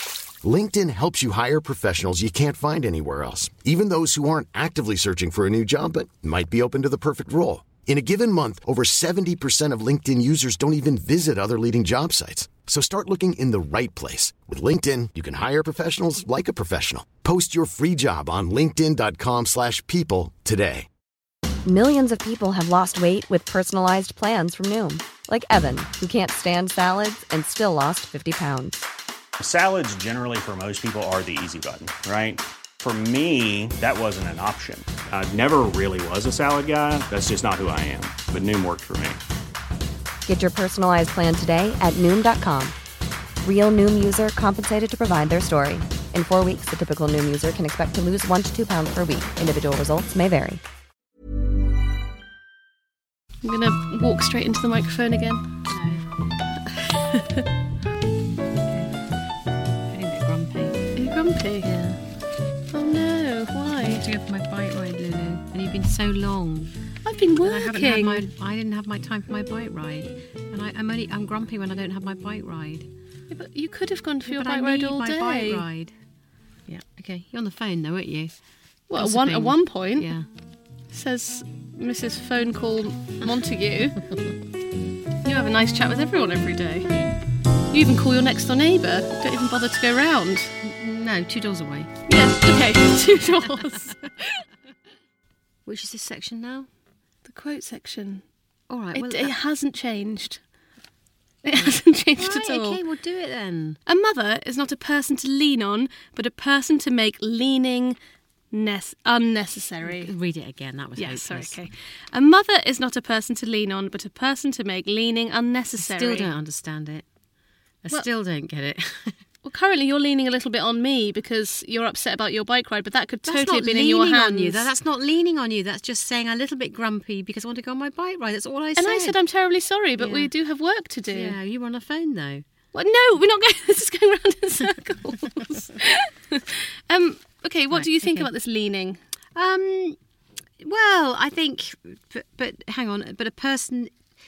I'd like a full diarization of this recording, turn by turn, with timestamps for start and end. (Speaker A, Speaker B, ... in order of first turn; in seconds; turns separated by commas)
Speaker A: 0.4-20.9, Speaker B: 21.7-28.8, Speaker C: 29.4-39.2, Speaker B: 40.3-42.7, Speaker B: 43.4-50.6, Speaker D: 53.4-55.5, Speaker E: 55.7-56.0, Speaker D: 57.1-57.4, Speaker E: 59.9-60.9, Speaker D: 61.0-61.9, Speaker E: 61.7-62.0, Speaker D: 62.7-64.0, Speaker E: 63.6-66.7, Speaker D: 67.0-68.3, Speaker E: 67.4-72.9, Speaker D: 73.3-75.7, Speaker E: 74.2-75.9, Speaker E: 76.7-78.3, Speaker D: 78.9-80.1, Speaker E: 79.0-80.2, Speaker D: 80.9-84.0, Speaker D: 85.2-86.9, Speaker D: 87.7-90.5, Speaker E: 90.6-91.9, Speaker D: 92.1-94.4, Speaker E: 95.7-96.7, Speaker D: 97.2-98.2, Speaker E: 98.7-99.3, Speaker D: 98.9-100.4, Speaker D: 101.4-102.8, Speaker E: 101.6-103.8, Speaker D: 103.9-108.0, Speaker D: 108.5-110.1, Speaker E: 109.8-111.5, Speaker D: 111.0-116.3, Speaker E: 115.8-117.0, Speaker E: 117.8-119.2, Speaker D: 119.4-124.7, Speaker E: 123.2-129.2, Speaker D: 128.8-131.3, Speaker E: 130.0-130.3, Speaker E: 131.1-132.4, Speaker D: 132.7-139.0, Speaker E: 137.7-138.3, Speaker E: 139.3-140.0, Speaker E: 140.6-143.9